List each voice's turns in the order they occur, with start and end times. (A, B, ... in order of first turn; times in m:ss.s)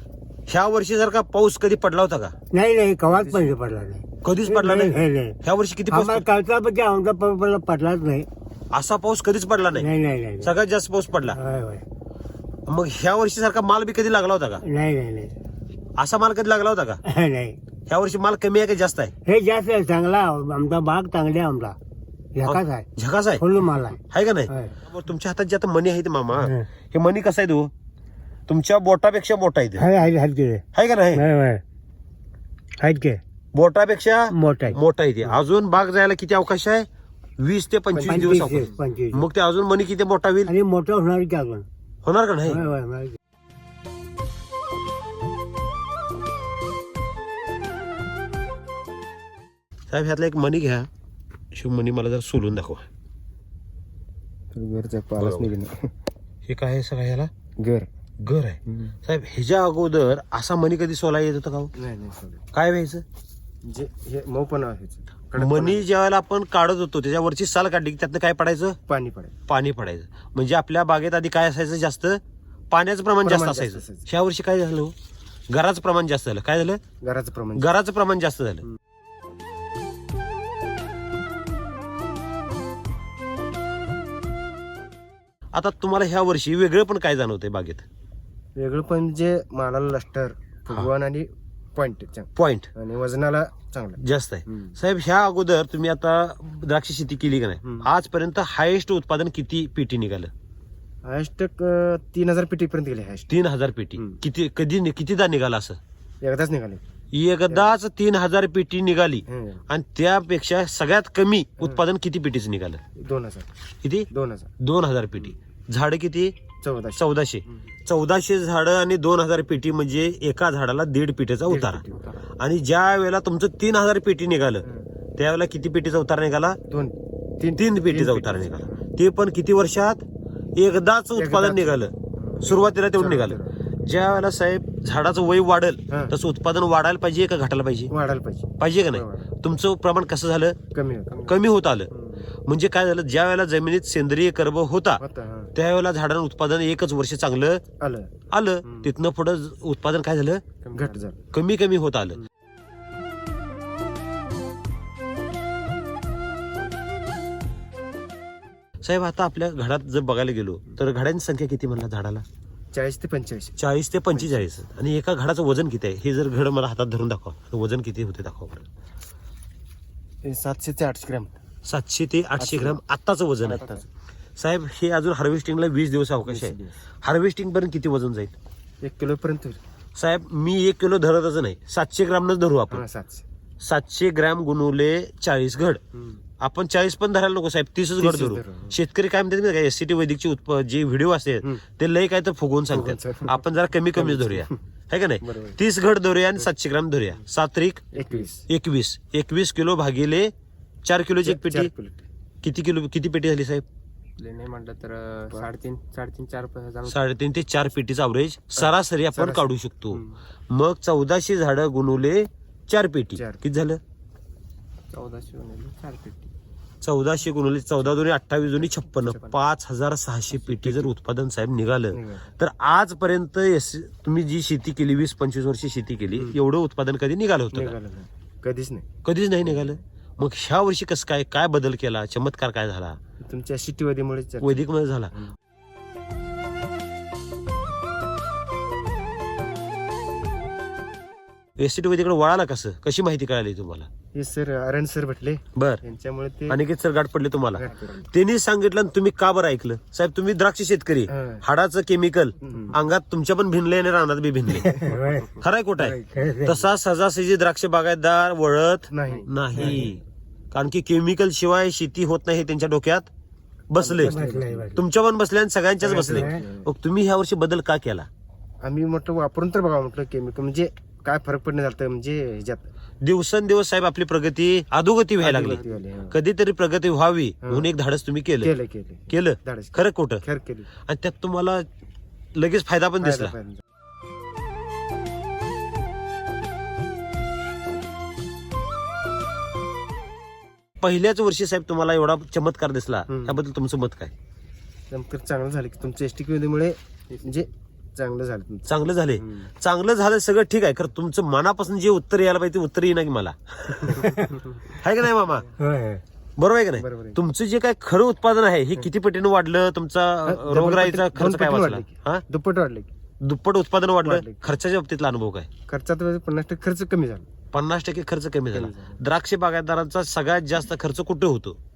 0:00.5-0:02.4 A
0:02.5-0:05.4 B
0:03.1-0:03.6 C
0:04.2-0:06.3 A
0:05.9-0:08.3 B
0:08.7-0:11.4 A
0:09.8-0:10.5 B
0:11.3-0:11.8 B
0:12.7-0:14.6 A
0:14.6-0:15.4 B
0:16.0-0:17.0 A
0:17.0-0:17.6 B
0:17.9-0:19.1 A
0:19.2-0:21.8 B
0:22.3-0:22.9 B
0:22.4-0:23.5 A
0:23.4-0:24.8 B
0:24.1-0:27.7 A
0:26.4-0:26.6 B
0:28.5-0:29.9 A
0:29.8-0:31.6 B
0:30.7-0:31.2 A
0:32.8-0:33.2 B
0:33.5-0:40.6 A
0:34.3-0:34.8 B
0:37.9-0:38.7 C
0:38.1-0:39.2 B
0:40.5-0:41.7 B
0:42.0-0:42.7 A
0:42.5-0:43.2 B
0:49.9-0:50.9 A
0:51.5-0:52.9 A
0:54.5-0:55.9 C
0:55.2-0:55.5 A
0:56.5-0:57.3 A
0:57.6-0:57.9 C
0:58.2-1:01.7 A
1:01.7-1:02.4 C
1:02.5-1:03.0 A
1:03.6-1:05.9 C
1:05.4-1:08.8 A
1:08.9-1:09.4 C
1:09.5-1:14.9 A
1:13.2-1:14.1 C
1:15.5-1:16.8 A
1:17.0-1:17.7 C
1:17.6-1:18.6 A
1:25.5-1:27.8 A
1:28.6-1:34.8 C
1:32.4-1:32.7 A
1:34.0-1:40.3 A
1:37.6-1:37.9 C
1:41.0-1:43.3 C
1:43.3-1:45.8 A
1:46.2-1:46.8 C
1:47.1-1:52.8 A
1:49.3-1:49.6 C
1:52.9-1:53.5 C
1:54.1-1:54.5 C
1:54.6-1:56.4 A
1:56.6-1:57.1 C
1:57.0-2:06.6 A
2:01.5-2:02.2 C
2:04.6-2:04.9 C
2:06.7-2:08.8 C
2:07.6-2:17.9 A
2:11.2-2:13.6 C
2:15.9-2:16.2 C
2:17.9-2:19.3 C
2:18.6-2:20.6 A
2:20.7-2:21.4 C
2:21.2-2:21.9 A
2:22.5-2:25.0 A
2:25.0-2:25.5 C
2:25.6-2:27.6 A
2:27.8-2:28.1 C
2:28.3-2:30.4 A
2:28.6-2:28.9 C
2:30.7-2:31.2 C
2:31.3-2:32.2 A
2:38.8-2:42.2 A
2:42.7-2:43.6 C
2:43.6-2:48.7 A
2:44.1-2:44.5 C
2:50.2-2:51.4 C
2:51.6-2:53.8 A
2:52.4-2:52.8 C
2:53.4-2:53.9 C
2:54.4-2:58.4 A
2:56.3-2:56.8 C
2:58.8-2:59.6 C
3:00.0-3:02.8 A
3:02.7-3:03.2 C
3:03.6-3:05.8 A
3:06.4-3:18.0 A
3:08.0-3:08.8 C
3:12.7-3:13.4 C
3:13.9-3:14.6 C
3:15.2-3:15.6 C
3:17.9-3:18.5 C
3:18.5-3:20.3 A
3:20.8-3:21.7 A
3:21.2-3:22.1 C
3:22.4-3:23.6 A
3:24.2-3:27.0 D
3:26.9-3:33.8 A
3:28.6-3:29.5 C
3:33.2-3:33.4 C
3:34.9-3:36.3 D
3:36.8-3:47.8 A
3:39.0-3:39.3 C
3:40.5-3:40.9 C
3:41.9-3:42.3 C
3:47.5-3:48.9 C
3:49.0-3:53.0 A
3:53.2-3:55.3 C
3:54.4-3:55.2 A
4:01.6-4:03.9 A
4:04.1-4:06.6 C
4:05.6-4:05.8 A
4:06.5-4:14.8 A
4:07.6-4:08.1 C
4:11.1-4:11.4 C
4:12.4-4:12.8 C
4:14.6-4:15.3 B
4:15.4-4:23.1 A
4:15.8-4:16.1 C
4:16.1-4:16.7 B
4:18.9-4:19.9 C
4:23.7-4:28.1 A
4:23.8-4:24.8 C
4:24.0-4:24.8 B
4:25.8-4:26.7 C
4:26.1-4:26.4 B
4:28.6-4:32.7 C
4:33.0-4:38.5 A
4:35.2-4:36.2 C
4:37.4-4:37.7 C
4:38.4-4:40.7 C
4:39.1-4:40.2 A
4:40.8-4:41.7 A
4:42.3-4:43.3 A
4:43.0-4:43.6 C
4:50.8-4:54.1 A
4:53.1-4:53.4 C
4:54.9-4:59.5 C
4:58.7-5:04.1 A
5:03.9-5:04.3 B
5:04.7-5:05.5 A
5:05.6-5:06.0 B
5:06.4-5:12.2 A
5:06.8-5:07.2 C
5:10.2-5:12.9 C
5:13.2-5:15.5 A
5:14.0-5:14.6 C
5:15.7-5:17.3 C
5:17.5-5:21.6 A
5:18.5-5:19.0 C